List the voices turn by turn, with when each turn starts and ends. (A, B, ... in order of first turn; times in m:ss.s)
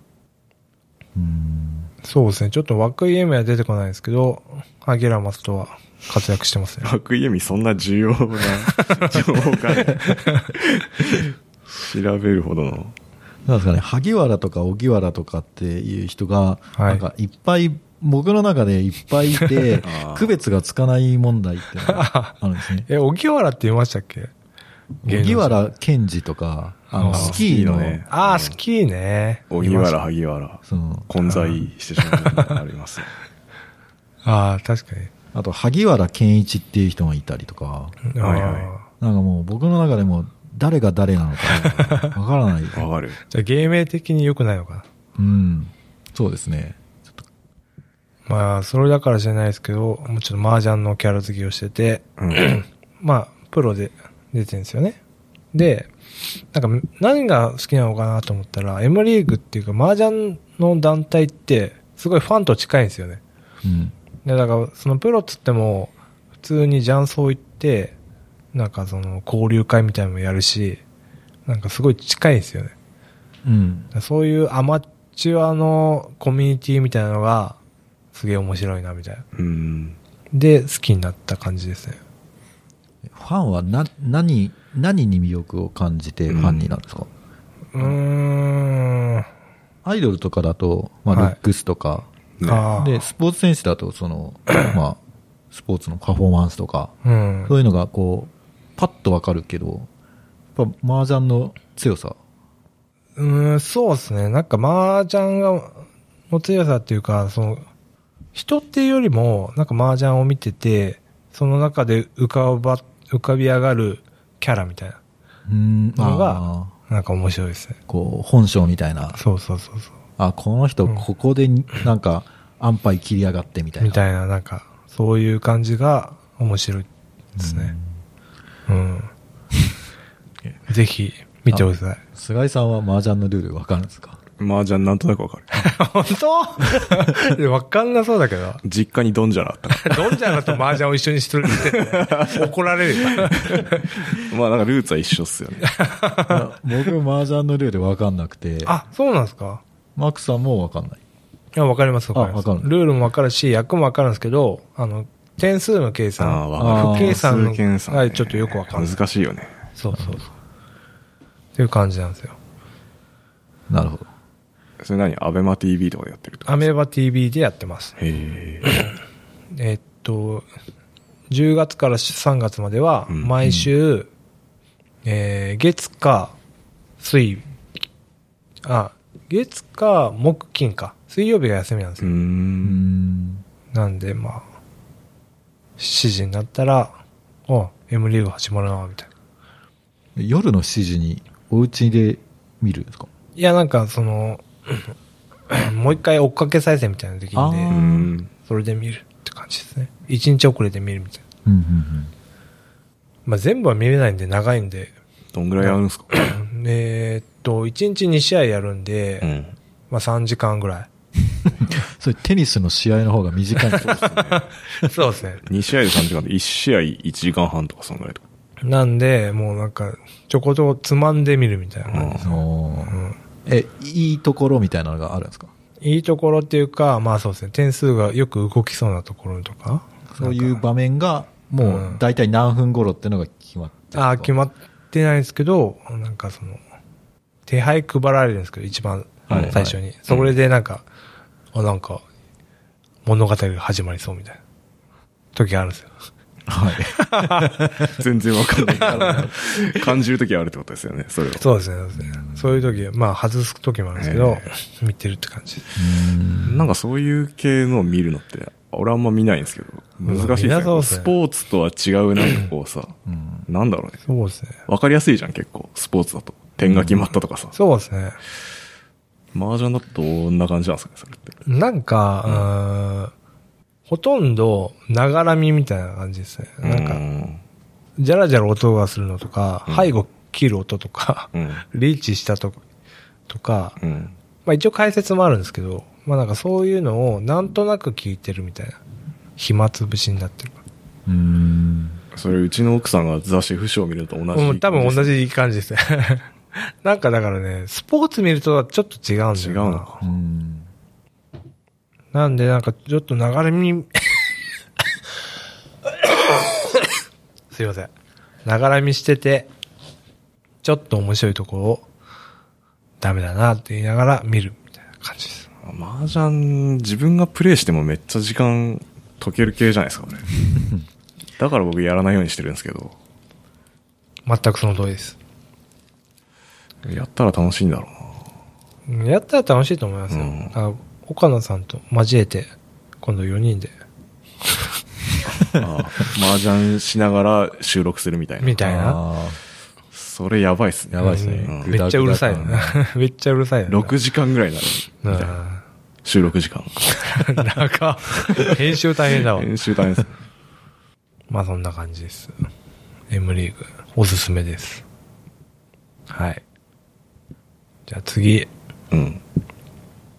0:01.2-0:01.9 A
0:02.0-0:06.9 B
0:06.8-0:12.9 C
0:08.7-0:09.2 B
0:09.8-0:10.5 B
0:13.4-0:22.9 A
0:16.8-0:17.0 B
0:19.8-0:20.3 C
0:21.8-0:22.3 B
0:22.9-0:24.3 B
0:25.0-0:28.0 A
0:25.0-0:25.6 B
0:26.9-0:27.4 B
0:27.1-0:28.6 C
0:28.1-0:30.0 B
0:29.5-0:33.1 C
0:30.6-0:31.1 A
0:31.2-0:32.6 B
0:34.2-0:35.1 B
0:35.3-0:38.0 A
0:38.0-0:38.8 B
0:38.2-0:38.7 C
0:39.0-0:42.8 A
0:41.4-0:42.0 C
0:41.6-0:42.1 B
0:42.7-0:43.2 C
0:43.3-0:44.8 B
0:45.2-0:47.2 A
0:48.3-0:55.0 B
0:52.2-0:52.5 C
0:55.5-0:55.9 B
0:56.5-1:03.2 B
1:03.6-1:03.9 A
1:04.2-1:07.9 B
1:08.5-1:10.8 B
1:11.4-1:12.7 B
1:13.4-1:13.9 A
1:13.9-1:17.6 B
1:18.1-1:19.2 B
1:19.3-1:20.0 C
1:20.3-1:22.0 B
1:23.1-1:27.1 A
1:26.3-1:26.7 C
1:27.7-1:29.2 B
1:29.8-1:32.1 A
1:31.1-1:31.4 B
1:32.4-1:32.6 C
1:32.4-1:33.0 B
1:32.7-1:35.0 A
1:35.5-1:36.9 A
1:37.0-1:37.5 B
1:37.5-1:39.9 A
1:40.6-1:42.2 A
1:43.2-1:47.6 B
1:48.3-1:55.0 B
1:55.5-1:56.7 A
1:56.0-1:57.8 B
1:57.9-1:59.2 A
1:59.2-1:59.9 B
2:00.2-2:04.0 A
2:03.8-2:06.9 B
2:07.4-2:07.9 A
2:07.4-2:07.7 B
2:08.7-2:09.1 B
2:10.7-2:12.0 B
2:11.5-2:14.2 A
2:14.4-2:15.7 C
2:15.5-2:18.6 B
2:18.6-2:20.6 C
2:19.8-2:23.9 B
2:21.5-2:22.5 C
2:23.0-2:25.8 C
2:25.7-2:26.4 B
2:26.3-2:28.8 A
2:28.6-2:29.6 B
2:30.0-2:31.0 A
2:31.5-2:39.0 B
2:32.1-2:32.7 A
2:36.2-2:39.5 C
2:36.6-2:37.2 A
2:39.8-2:40.3 B
2:41.6-2:42.4 B
2:43.7-2:44.1 A
2:44.8-2:46.7 C
2:46.5-2:48.0 B
2:48.0-2:48.7 C
2:49.5-2:50.4 B
2:51.3-2:54.1 B
2:53.4-2:53.7 A
2:55.0-2:56.3 B
2:57.0-2:57.5 B
2:58.6-3:02.2 B
3:02.0-3:02.8 C
3:02.6-3:03.4 A
3:03.7-3:04.4 B
3:05.8-3:06.9 B
3:07.5-3:09.1 B
3:10.2-3:13.1 A
3:13.4-3:14.9 B
3:15.5-3:17.8 B
3:17.3-3:18.1 A
3:17.7-3:18.3 C
3:18.4-3:21.2 B
3:21.4-3:22.1 A
3:23.2-3:24.9 B
3:25.3-3:26.1 C
3:25.6-3:29.3 B
3:29.2-3:29.5 C
3:29.9-3:30.9 B
3:31.7-3:33.9 A
3:33.8-3:34.4 C
3:34.3-3:35.4 B
3:35.4-3:38.2 C
3:38.6-3:42.3 B
3:41.9-3:42.3 C
3:42.1-3:45.5 A
3:42.9-3:43.2 B
3:45.8-3:50.6 B
3:50.1-3:54.3 A
3:51.6-3:52.0 B
3:53.9-3:56.6 B
3:57.5-4:00.8 B
3:59.3-3:59.8 A
3:59.3-3:59.5 C
4:01.5-4:02.0 B
4:03.0-4:04.4 B
4:05.3-4:05.9 B
4:06.5-4:08.0 A
4:07.0-4:07.6 B
4:07.9-4:11.4 C
4:08.8-4:09.3 A
4:11.4-4:15.7 B
4:12.0-4:12.8 A
4:14.0-4:14.5 C
4:15.8-4:16.7 A
4:16.4-4:22.9 C
4:20.0-4:21.1 B
4:23.0-4:23.4 A
4:23.5-4:24.0 C
4:24.1-4:24.5 B
4:24.7-4:27.5 C
4:26.6-4:27.0 A
4:27.5-4:28.2 B
4:29.3-4:31.4 C
4:31.4-4:33.1 B
4:33.9-4:37.0 B
4:36.6-4:37.4 C
4:38.0-4:42.6 B
4:39.7-4:39.9 C
4:41.3-4:41.6 C
4:43.3-4:43.8 B
4:43.8-4:44.1 C
4:44.4-4:48.8 B
4:49.4-4:50.6 B
4:51.0-4:52.0 A
4:52.1-4:55.2 C
4:54.3-4:59.9 B
4:59.3-5:00.0 C
5:00.0-5:00.7 A
5:02.1-5:04.2 B
5:06.0-5:06.8 B
5:07.5-5:07.9 B
5:08.4-5:09.5 B
5:10.6-5:11.9 B
5:13.0-5:15.5 B
5:15.6-5:20.4 C
5:20.6-5:20.8 A
5:21.4-5:22.9 C
5:24.3-5:25.2 B
5:26.8-5:28.2 C
5:28.9-5:33.7 B
5:30.1-5:30.5 C
5:35.4-5:38.6 C
5:38.4-5:39.0 B
5:38.6-5:39.4 A
5:39.9-5:41.8 C
5:40.9-5:42.8 A
5:41.0-5:43.9 B
5:43.7-5:45.3 C
5:45.0-5:45.6 B
5:46.0-5:46.8 C
5:46.9-5:49.5 B
5:49.2-5:50.1 C
5:51.3-5:52.3 B
5:53.1-5:54.8 B
5:56.1-5:56.4 B
5:57.9-5:58.5 B
5:58.9-5:59.2 C